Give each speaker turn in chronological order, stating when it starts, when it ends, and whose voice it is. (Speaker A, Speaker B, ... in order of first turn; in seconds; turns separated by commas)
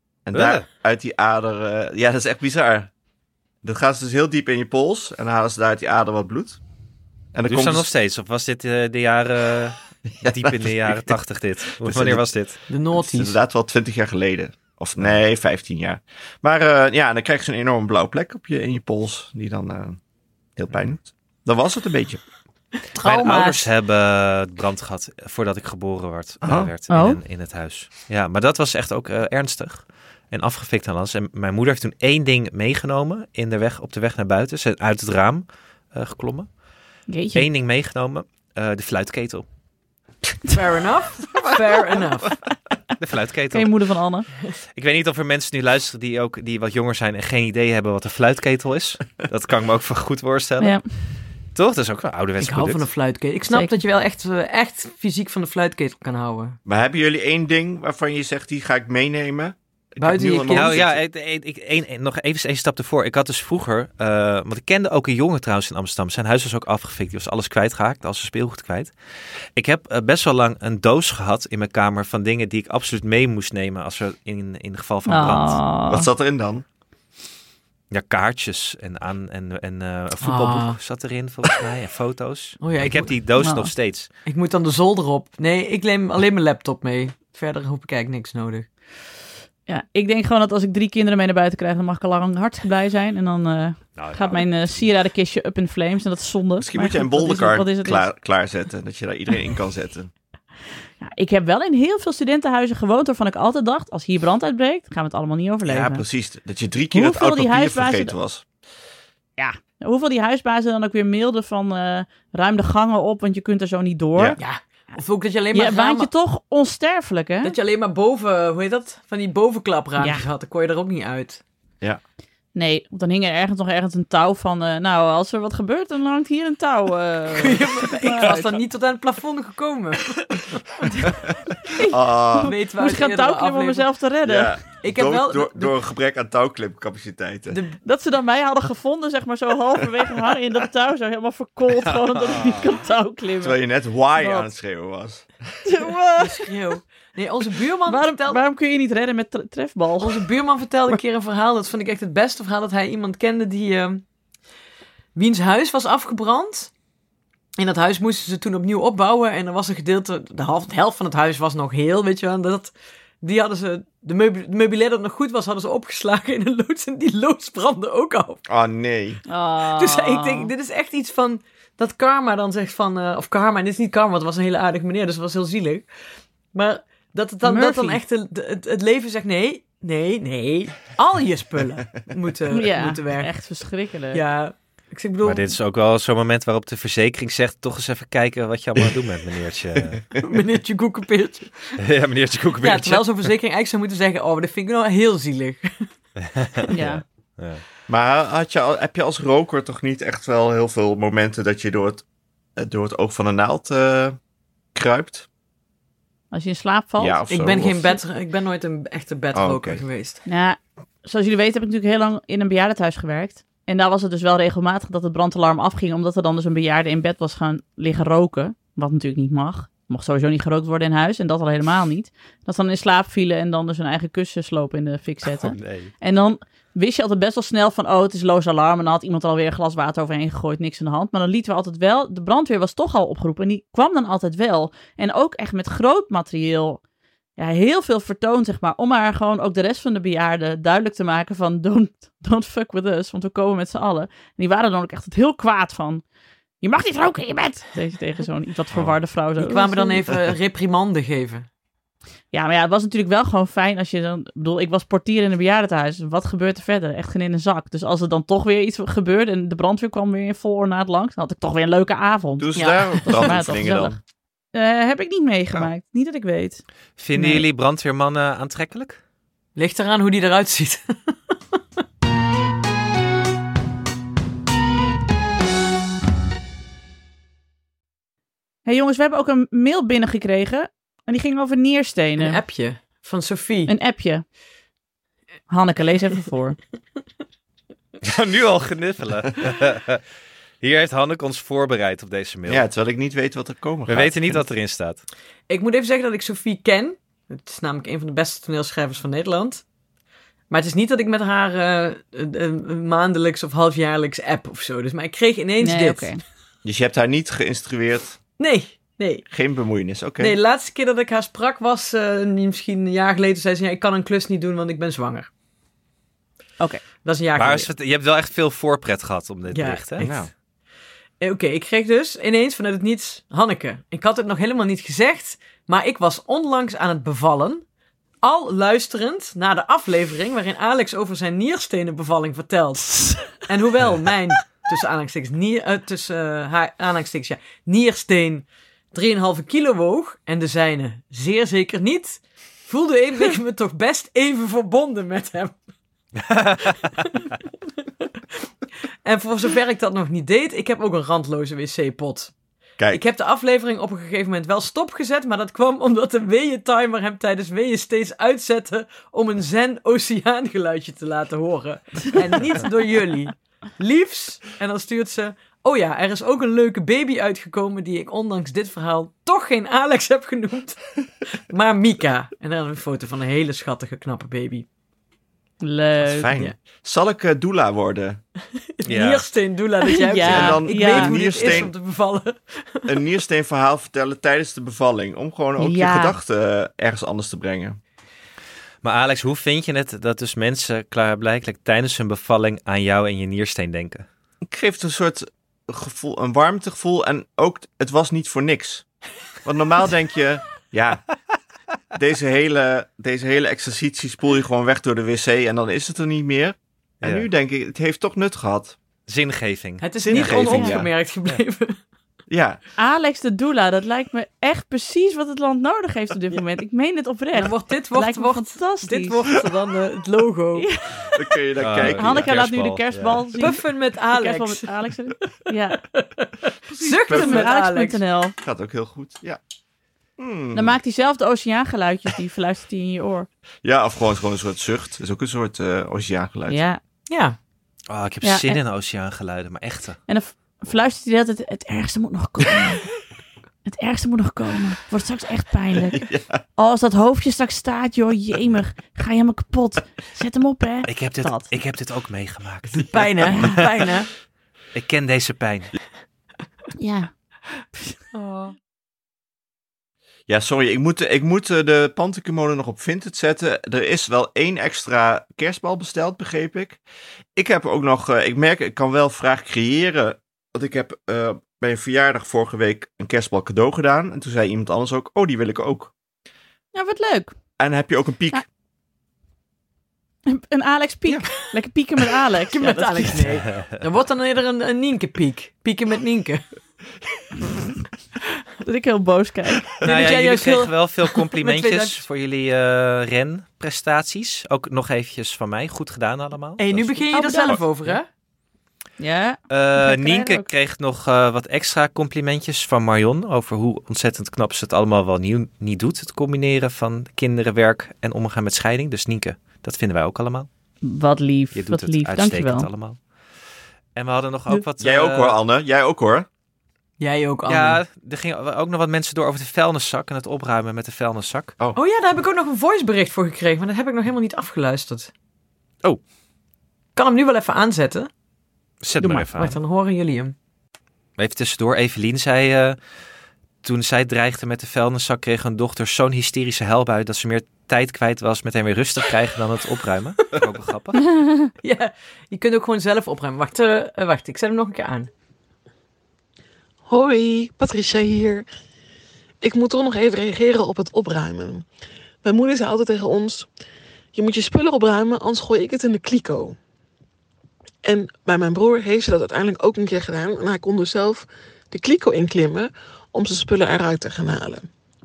Speaker A: 0.2-2.9, Speaker B: 0.3-0.7, Speaker A: 3.6-6.6, Speaker A: 7.3-7.9, Speaker B: 7.5-12.6, Speaker A: 10.2-11.2, Speaker A: 11.8-12.3, Speaker C: 12.7-13.3, Speaker A: 12.9-20.0, Speaker A: 20.6-22.2, Speaker C: 22.9-23.7, Speaker B: 23.0-36.5, Speaker A: 26.4-26.7, Speaker D: 26.9-27.2, Speaker D: 37.1-37.5, Speaker B: 37.3-39.4, Speaker C: 40.5-42.3, Speaker A: 41.4-42.1, Speaker B: 43.0-43.7, Speaker D: 43.5-44.2, Speaker B: 44.7-50.8, Speaker B: 51.5-52.8, Speaker C: 52.4-56.6, Speaker A: 56.6-61.0, Speaker C: 60.0-60.8, Speaker B: 60.5-68.9, Speaker B: 69.5-75.6, Speaker D: 75.1-76.1, Speaker A: 75.9-76.6, Speaker B: 77.9-84.1, Speaker C: 80.2-80.8, Speaker C: 82.6-83.1, Speaker D: 83.4-83.7, Speaker C: 84.2-88.7, Speaker D: 89.7-98.1, Speaker B: 94.0-94.9, Speaker A: 96.6-100.1, Speaker D: 101.0-106.0, Speaker A: 105.7-108.4, Speaker D: 106.9-108.1, Speaker D: 109.4-114.4, Speaker C: 114.4-116.1, Speaker D: 115.5-117.5, Speaker C: 117.4-121.4, Speaker D: 120.0-120.2, Speaker D: 122.5-128.6, Speaker C: 127.3-130.8, Speaker D: 131.8-134.5, Speaker A: 131.8-132.5, Speaker C: 132.4-133.9, Speaker A: 134.2-137.6, Speaker C: 134.8-135.7, Speaker C: 137.5-137.8, Speaker D: 137.8-143.6, Speaker B: 142.3-142.6, Speaker A: 143.4-145.3, Speaker D: 144.2-144.5, Speaker D: 145.6-146.5, Speaker C: 146.2-148.4, Speaker D: 147.9-150.2, Speaker C: 150.0-154.0, Speaker C: 155.1-156.7, Speaker C: 157.6-168.4, Speaker A: 168.5-169.2, Speaker D: 169.3-170.5, Speaker C: 169.7-175.9, Speaker C: 176.5-183.3, Speaker D: 177.4-178.0, Speaker D: 182.5-184.2, Speaker C: 184.1-185.5, Speaker B: 185.2-190.0, Speaker C: 190.2-191.7, Speaker B: 191.8-193.3, Speaker C: 192.6-195.9, Speaker B: 196.2-197.6, Speaker D: 196.7-197.0, Speaker A: 197.9-202.0, Speaker A: 202.6-204.2, Speaker A: 204.7-205.3, Speaker D: 206.3-207.2, Speaker A: 207.0-208.0, Speaker C: 207.3-210.2, Speaker A: 209.3-209.8, Speaker D: 210.2-236.8, Speaker B: 225.2-225.9, Speaker D: 237.4-246.0, Speaker D: 246.6-250.0, Speaker C: 249.4-251.5, Speaker D: 252.3-263.9, Speaker A: 262.4-264.0, Speaker C: 262.5-263.4, Speaker D: 264.5-266.6, Speaker B: 267.0-269.0, Speaker D: 267.1-267.4, Speaker C: 269.6-271.1, Speaker D: 278.6-282.4, Speaker C: 282.2-283.7, Speaker D: 283.7-284.2, Speaker D: 285.5-286.6, Speaker B: 288.0-290.0, Speaker B: 290.6-292.6, Speaker A: 292.5-294.4, Speaker B: 293.9-295.0, Speaker C: 295.5-299.6, Speaker C: 300.5-306.1, Speaker D: 305.6-306.2, Speaker A: 306.6-308.2, Speaker C: 308.4-309.2, Speaker A: 309.3-310.4, Speaker C: 310.2-315.3, Speaker C: 317.0-317.7, Speaker B: 317.4-320.1, Speaker C: 319.5-320.2, Speaker A: 320.0-320.3, Speaker C: 321.2-327.6, Speaker C: 328.2-345.6, Speaker B: 346.2-346.7, Speaker C: 346.8-347.4, Speaker C: 349.0-352.3, Speaker C: 352.9-374.6, Speaker D: 375.6-376.3, Speaker A: 376.0-378.2, Speaker C: 378.8-382.9, Speaker B: 378.8-379.3, Speaker D: 379.8-381.6, Speaker A: 380.2-381.7, Speaker A: 382.9-387.8, Speaker D: 385.6-386.1, Speaker B: 388.8-394.1, Speaker A: 394.4-398.9, Speaker A: 399.4-401.0, Speaker A: 401.9-408.8, Speaker B: 407.0-407.3, Speaker B: 409.1-410.7, Speaker C: 409.8-411.8, Speaker A: 410.0-410.9, Speaker A: 412.3-412.6, Speaker D: 412.8-419.2, Speaker C: 417.3-420.7, Speaker D: 420.6-421.1, Speaker A: 421.1-422.3, Speaker B: 421.6-423.3, Speaker D: 421.8-425.8, Speaker C: 423.4-424.7, Speaker C: 425.9-428.0, Speaker D: 426.8-428.3, Speaker A: 427.1-427.5, Speaker A: 428.4-429.4, Speaker A: 430.2-430.8, Speaker D: 430.5-433.3, Speaker A: 433.6-436.6, Speaker D: 436.5-436.8, Speaker C: 437.1-437.4, Speaker B: 437.9-440.0, Speaker D: 438.2-438.6, Speaker D: 440.1-442.8, Speaker D: 443.6-446.0, Speaker A: 445.9-446.4, Speaker D: 446.6-451.5, Speaker B: 450.9-453.9, Speaker C: 452.7-454.1, Speaker B: 454.7-455.7, Speaker D: 456.8-457.1, Speaker C: 458.1-458.5, Speaker A: 460.3-466.8, Speaker A: 467.4-475.9, Speaker D: 476.7-477.3, Speaker A: 477.6-478.4, Speaker D: 480.3-483.2, Speaker C: 482.5-486.4, Speaker D: 488.6-489.8, Speaker C: 489.8-492.0, Speaker B: 489.8-498.0, Speaker C: 496.6-498.1, Speaker D: 497.1-497.6, Speaker D: 499.0-500.5, Speaker B: 499.5-510.5, Speaker D: 510.8-512.7, Speaker B: 511.5-513.0, Speaker B: 514.0-515.4, Speaker A: 514.8-516.3, Speaker C: 517.0-517.8, Speaker B: 517.5-521.5, Speaker C: 521.7-525.1, Speaker C: 527.0-528.1, Speaker B: 528.8-529.6, Speaker C: 529.0-530.3, Speaker B: 531.2-532.8, Speaker B: 533.6-541.0, Speaker D: 541.1-541.5, Speaker C: 541.6-545.1, Speaker E: 546.9-548.5, Speaker E: 549.4-551.6, Speaker E: 552.2-553.5, Speaker E: 554.1-556.5, Speaker E: 557.8-564.7